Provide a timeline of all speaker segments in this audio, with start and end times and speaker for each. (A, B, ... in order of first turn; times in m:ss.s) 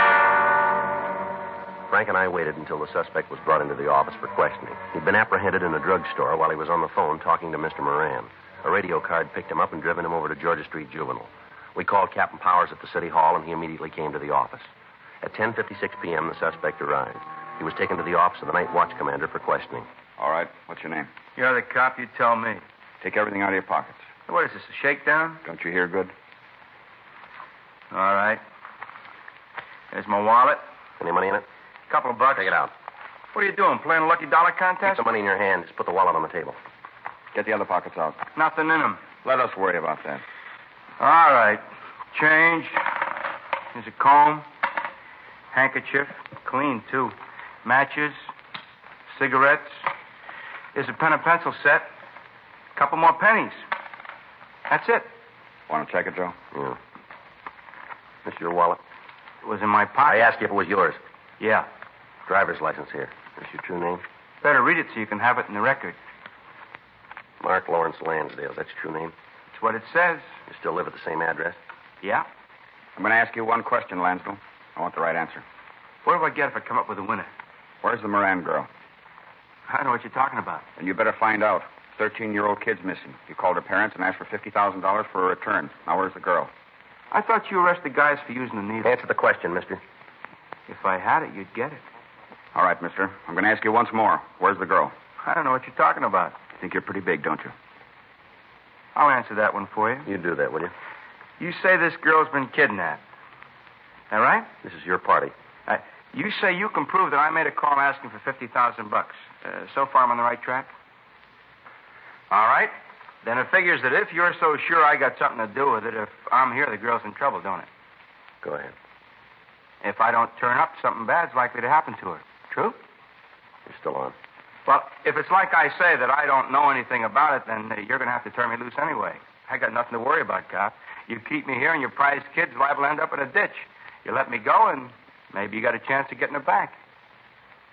0:01.9-0:14.7 A
0:15.2-0:19.9 A
0:20.2-0:21.1 B
0:21.4-0:22.6 C
0:23.0-0:24.1 B
0:24.3-0:25.4 C
0:25.4-0:26.1 B
0:27.9-0:28.4 C
0:29.9-0:30.6 C
0:31.0-0:31.5 A
0:31.9-0:32.6 C
0:32.4-0:32.7 A
0:33.3-0:35.0 C
0:34.8-0:36.6 A
0:37.3-0:38.3 B
0:38.4-0:39.1 C
0:39.1-0:40.2 B
0:41.0-0:42.8 C
0:43.7-0:44.5 C
0:45.5-0:48.3 C
0:49.1-0:49.8 C
0:50.7-0:51.9 C
0:52.8-0:53.6 C
0:54.7-0:55.1 C
0:55.7-0:56.4 B
0:58.2-0:58.8 A
0:59.4-1:00.3 C
1:00.0-1:01.0 A
1:01.4-1:01.7 C
1:02.3-1:04.0 A
1:04.4-1:06.0 C
1:07.4-1:09.2 A
1:09.5-1:10.3 C
1:10.5-1:11.6 A
1:12.0-1:12.3 C
1:13.0-1:15.4 B
1:16.0-1:17.3 C
1:17.8-1:18.7 B
1:19.7-1:20.7 C
1:20.8-1:26.5 B
1:27.1-1:28.9 C
1:28.8-1:29.8 A
1:30.7-1:31.8 C
1:32.5-1:35.0 B
1:35.2-1:36.5 C
1:36.5-1:37.5 B
1:39.0-1:40.1 C
1:40.1-1:40.7 A
1:41.4-1:43.0 C
1:44.1-1:44.5 C
1:44.6-1:45.3 A
1:45.7-1:50.7 C
1:52.3-1:57.7 C
1:58.4-1:58.7 A
1:59.8-2:02.8 C
2:03.7-2:04.2 A
2:04.7-2:16.8 C